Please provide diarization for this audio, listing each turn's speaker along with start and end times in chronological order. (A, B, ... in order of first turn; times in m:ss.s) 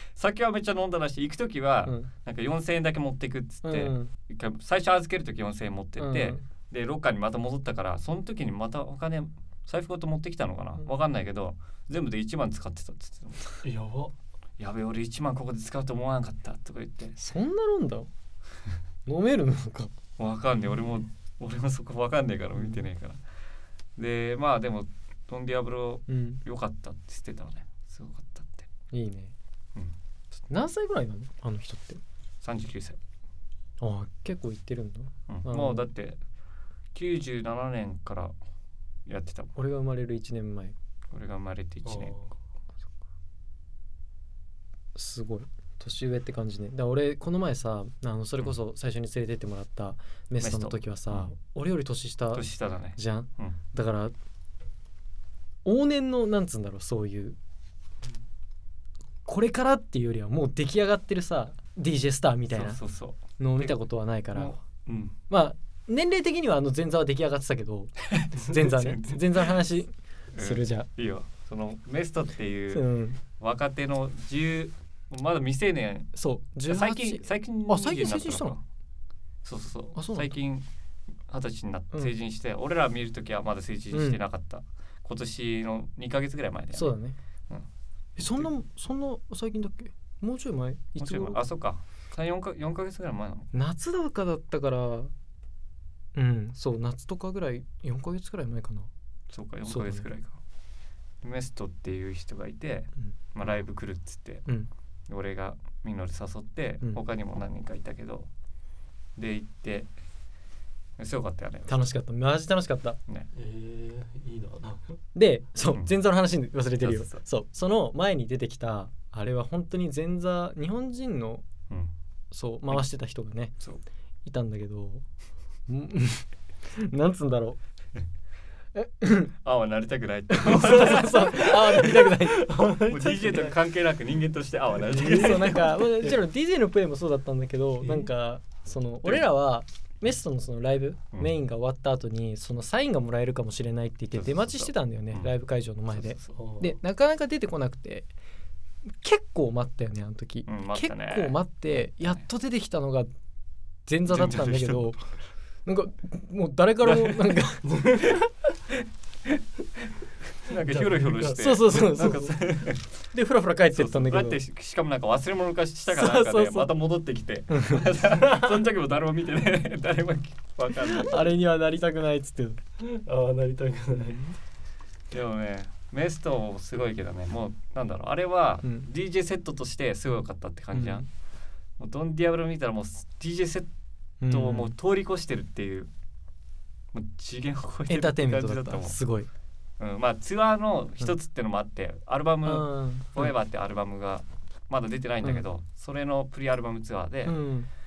0:00.1-0:13.4 A
0:03.6-0:04.1 B
0:06.0-0:06.4 B
0:13.6-0:14.1 C
0:14.6-0:17.2 A
0:17.2-0:18.1 B
0:19.0-0:19.9 B
0:20.2-0:23.2 A
0:24.0-0:28.7 A
0:26.1-0:26.4 B
0:28.9-0:29.3 B
0:30.5-0:32.0 B
0:32.4-0:33.0 A
0:33.8-0:35.9 B
0:35.3-0:36.2 A
0:36.9-0:38.3 A
0:39.0-0:39.6 A
0:39.6-0:40.7 B
0:41.1-0:42.2 A
0:41.8-0:42.3 C
0:44.9-0:54.1 B
0:50.4-0:51.3 A
0:52.3-0:53.6 A
0:55.6-0:57.4 B
0:59.2-1:02.8 B
1:02.5-1:03.8 A
1:03.4-1:04.6 B
1:04.3-1:05.2 A
1:05.3-1:10.9 B
1:08.0-1:09.5 A
1:10.3-1:16.1 A
1:12.7-1:13.2 B
1:16.1-1:18.6 B
1:16.7-1:18.6 A
1:19.4-1:20.7 A
1:19.9-1:20.3 B
1:21.3-1:26.9 A
1:23.9-1:24.2 B
1:26.7-1:27.2 B
1:27.5-1:28.5 A
1:28.2-1:31.4 B
1:31.0-1:33.5 A
1:33.5-1:35.1 B
1:36.1-1:38.9 B
1:39.3-1:40.4 A
1:39.7-1:40.0 B
1:41.2-1:44.4 A
1:45.1-1:48.3 A
1:49.2-1:49.9 A
1:51.0-1:51.8 A
1:51.7-1:53.0 B
1:53.3-1:54.9 C
1:55.1-2:01.4 B
1:55.6-1:55.9 A
1:56.8-1:57.2 A
2:02.3-2:03.5 B
2:04.2-2:05.0 B
2:05.7-2:07.6 B
2:08.7-2:09.3 B
2:09.4-2:12.2 A
2:10.3-2:12.6 B
2:12.2-2:13.6 C
2:12.8-2:15.7 A
2:14.8-2:16.2 C
2:14.9-2:28.1 B
2:17.8-2:18.1 C
2:24.1-2:25.3 A
2:25.9-2:26.3 A
2:26.3-2:26.7 C
2:29.0-2:33.1 B
2:30.4-2:31.4 A
2:33.8-2:35.0 B
2:34.1-2:34.9 A
2:35.6-2:37.7 B
2:36.8-2:37.4 A
2:37.6-2:38.3 C
2:38.8-2:39.4 A
2:40.4-2:42.9 A
2:40.5-2:41.7 C
2:41.4-2:42.4 B
2:43.1-2:44.4 B
2:43.7-2:51.3 A
2:45.9-2:46.7 B
2:47.5-2:47.8 B
2:50.8-2:52.6 B
2:52.8-2:54.2 C
2:53.9-2:54.3 B
2:55.1-3:01.1 A
3:00.7-3:01.0 B
3:01.8-3:03.7 A
3:04.2-3:04.7 B
3:04.3-3:05.9 A
3:06.9-3:09.0 A
3:07.9-3:09.3 B
3:09.8-3:17.4 A
3:12.4-3:13.3 B
3:17.2-3:17.7 B